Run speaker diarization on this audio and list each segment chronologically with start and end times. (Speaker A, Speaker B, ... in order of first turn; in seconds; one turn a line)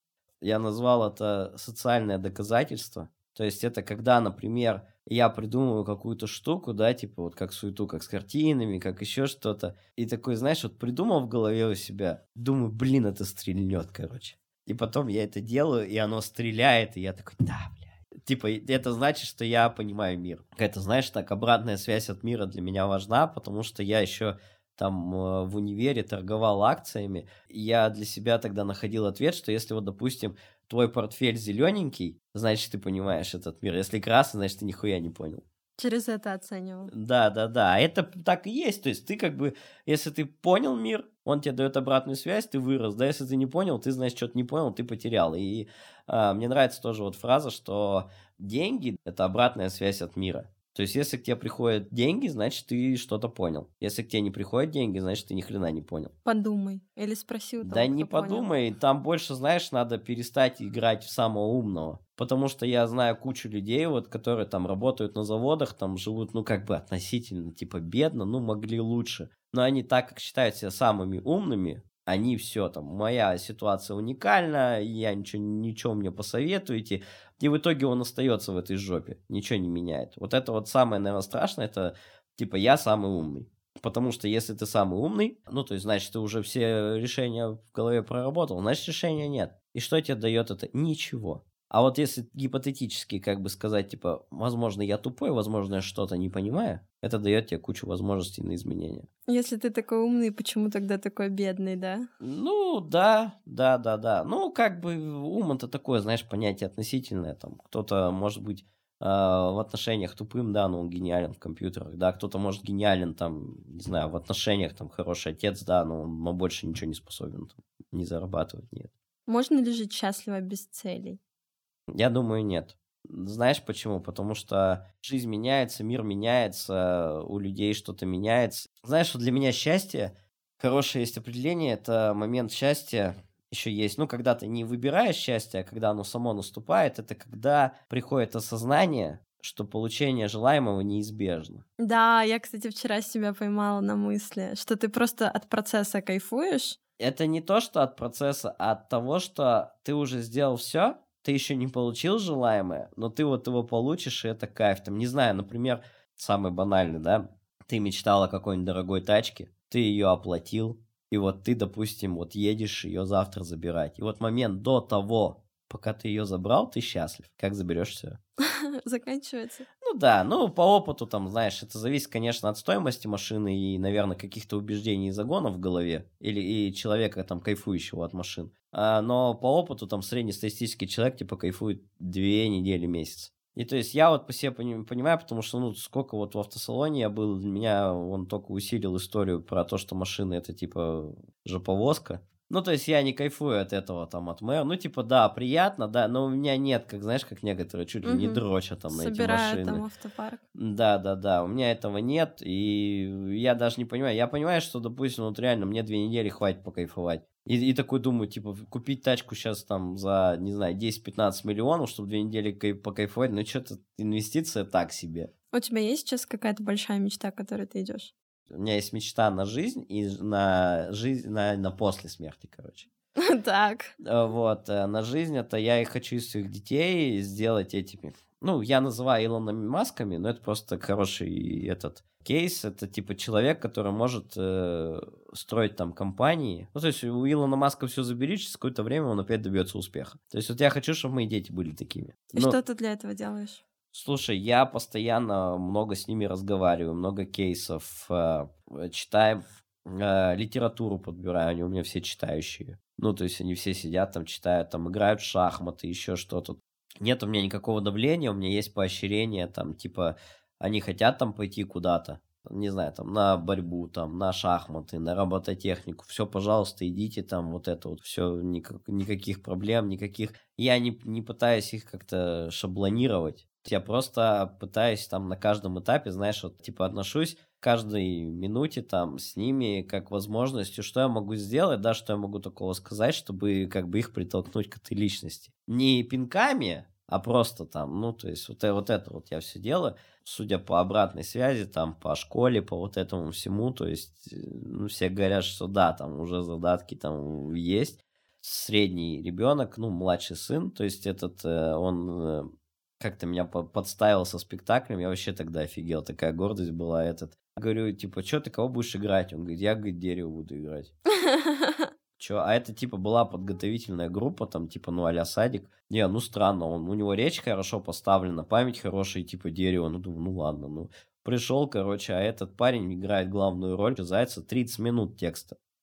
Speaker A: 0.4-35.4
Speaker B: 35.8-36.9
Speaker A: 36.9-56.1
Speaker B: 56.2-58.5
Speaker A: 57.6-99.1
Speaker B: 99.3-102.1
Speaker A: 102.2-118.9
Speaker B: 119.3-121.2
Speaker A: 122.0-141.7
Speaker B: 141.8-146.8
Speaker A: 147.0-168.2
Speaker B: 168.4-169.7
Speaker A: 169.8-199.8
Speaker B: 198.0-200.4
Speaker A: 200.6-215.3
Speaker B: 215.5-218.1
Speaker A: 218.5-222.9
Speaker B: 223.2-223.9
Speaker A: 224.0-242.6
Speaker B: 242.3-243.6
Speaker A: 243.9-302.5
Speaker A: 303.0-310.9
Speaker B: 311.3-311.9
Speaker A: 312.2-325.6